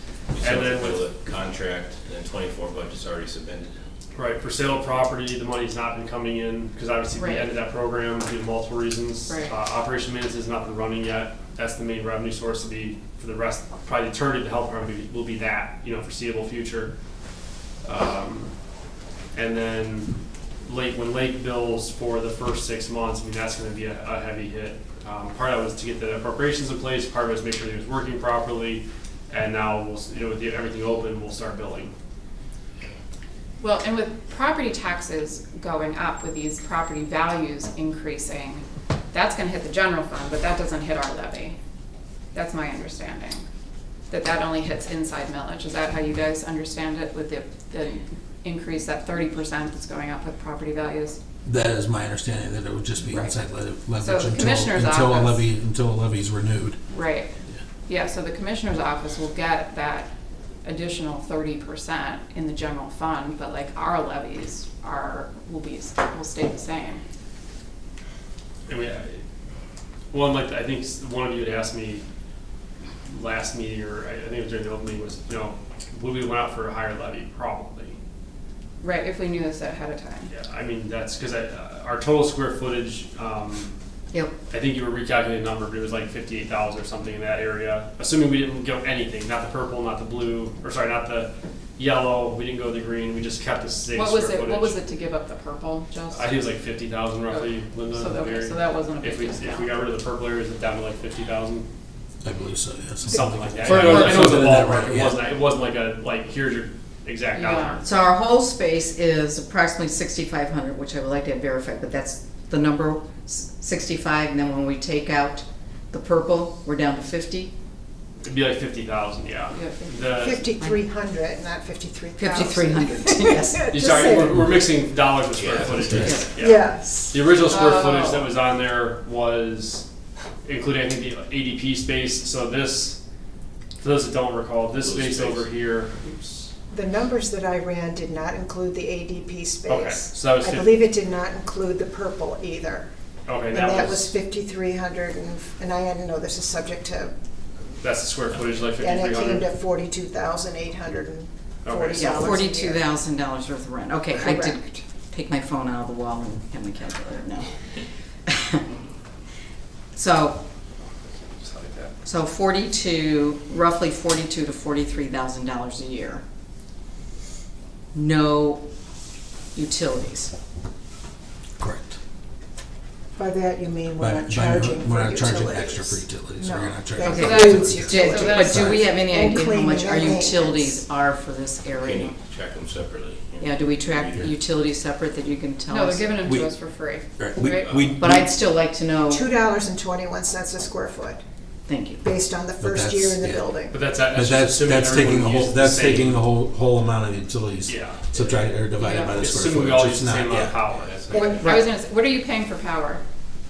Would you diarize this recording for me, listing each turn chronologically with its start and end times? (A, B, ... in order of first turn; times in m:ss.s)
0:00.4-0:03.8 A
0:00.4-0:01.1 B
0:04.1-0:16.9 B
0:07.2-0:07.5 C
0:09.3-0:09.6 C
0:17.8-0:18.5 B
0:19.3-0:31.9 B
0:33.6-0:41.6 C
0:42.3-0:43.4 C
0:44.1-0:51.2 C
0:51.4-0:56.8 D
0:53.0-0:53.3 C
0:54.0-0:55.4 C
0:56.9-0:57.3 C
0:57.9-1:00.1 C
1:00.6-1:07.0 C
1:08.7-1:09.2 B
1:10.1-1:12.0 B
1:13.1-1:18.0 B
1:18.8-1:20.3 C
1:20.3-1:23.7 B
1:24.5-1:34.8 B
1:33.9-1:36.4 C
1:36.1-1:41.7 B
1:37.3-1:39.8 C
1:42.2-1:45.3 D
1:43.0-1:47.8 B
1:43.1-1:43.5 E
1:43.8-1:44.3 C
1:47.4-1:47.8 C
1:47.8-1:57.5 F
1:58.2-2:00.5 B
1:59.5-2:00.0 C
2:00.1-2:04.7 E
2:02.2-2:04.1 F
2:03.7-2:09.9 B
2:05.3-2:06.3 A
2:05.9-2:06.3 F
2:06.4-2:07.3 E
2:07.4-2:08.3 C
2:10.4-2:13.0 B
2:13.8-2:16.5 B
2:14.7-2:15.5 A
2:16.7-2:22.9 E
2:19.7-2:20.8 B
2:23.3-2:24.2 B
2:23.5-2:27.1 E
2:27.8-2:29.5 B
2:28.8-2:32.9 E
2:31.6-2:32.3 B
2:32.0-2:37.6 F
2:34.1-2:34.8 E
2:38.3-2:38.6 F
2:40.0-2:40.4 F
2:41.4-2:41.9 B
2:42.0-2:46.2 F
2:47.9-2:48.7 F
2:49.6-2:50.3 F
2:51.6-2:52.0 D
2:53.2-3:00.8 E
2:54.0-2:59.0 D
2:57.0-2:58.8 C
2:57.0-3:02.2 F
3:01.7-3:04.3 A
3:03.4-3:06.2 F
3:05.7-3:07.8 C
3:06.2-3:08.3 D
3:07.4-3:08.0 A
3:07.9-3:09.3 F
3:09.1-3:11.2 E
3:11.7-3:12.0 F
3:12.0-3:13.8 E
3:12.6-3:20.6 D
3:13.7-3:16.2 B
3:17.7-3:18.3 B
3:18.8-3:19.2 C
3:19.2-3:21.0 B
3:20.1-3:21.6 A
3:21.1-3:21.4 E
3:21.1-3:23.0 C
3:21.4-3:21.7 F